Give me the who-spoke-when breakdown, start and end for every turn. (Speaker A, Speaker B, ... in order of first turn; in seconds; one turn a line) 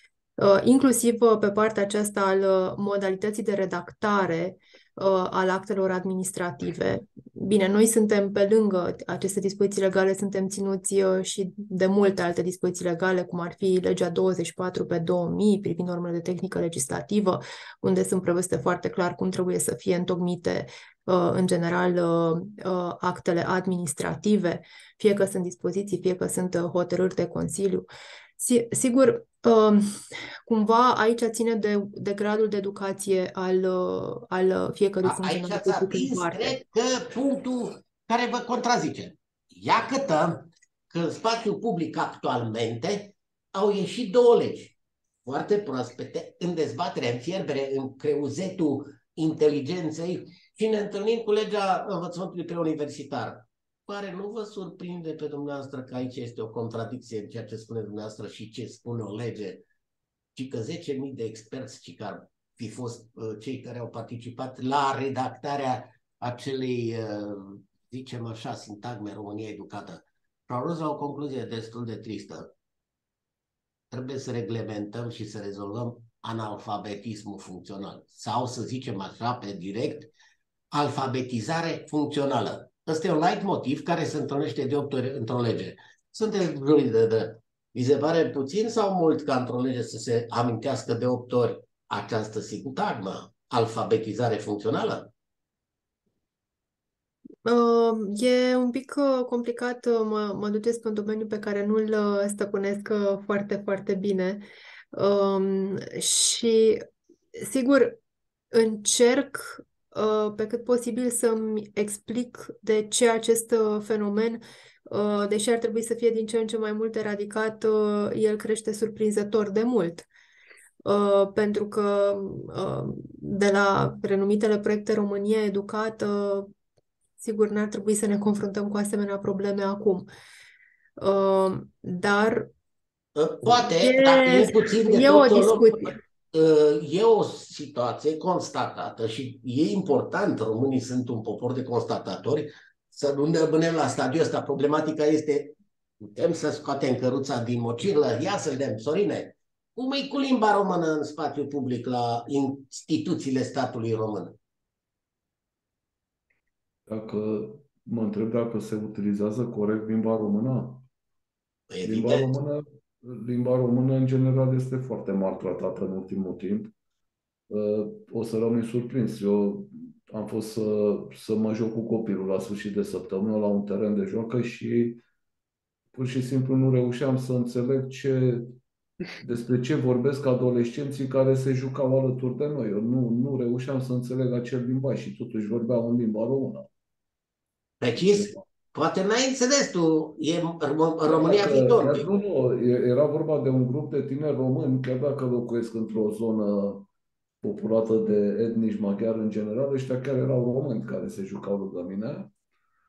Speaker A: 0.4-27.9
Speaker A: 28.4-36.6
Speaker B: 35.0-59.6
Speaker B: 60.4-72.5
Speaker B: 73.9-80.1
Speaker B: 80.7-95.1
Speaker A: 97.4-106.8
Speaker A: 107.4-108.0
Speaker A: 108.5-120.1
Speaker A: 120.8-126.5
Speaker A: 127.2-130.1
Speaker A: 131.0-132.5
Speaker B: 133.2-154.4
Speaker A: 133.5-136.0
Speaker C: 156.9-160.8
Speaker B: 161.7-162.3
Speaker C: 161.8-166.7
Speaker C: 167.5-175.0
Speaker C: 175.9-178.6
Speaker C: 179.2-186.7
Speaker B: 187.8-192.0
Speaker C: 188.1-188.4
Speaker C: 191.1-196.9
Speaker C: 197.4-202.3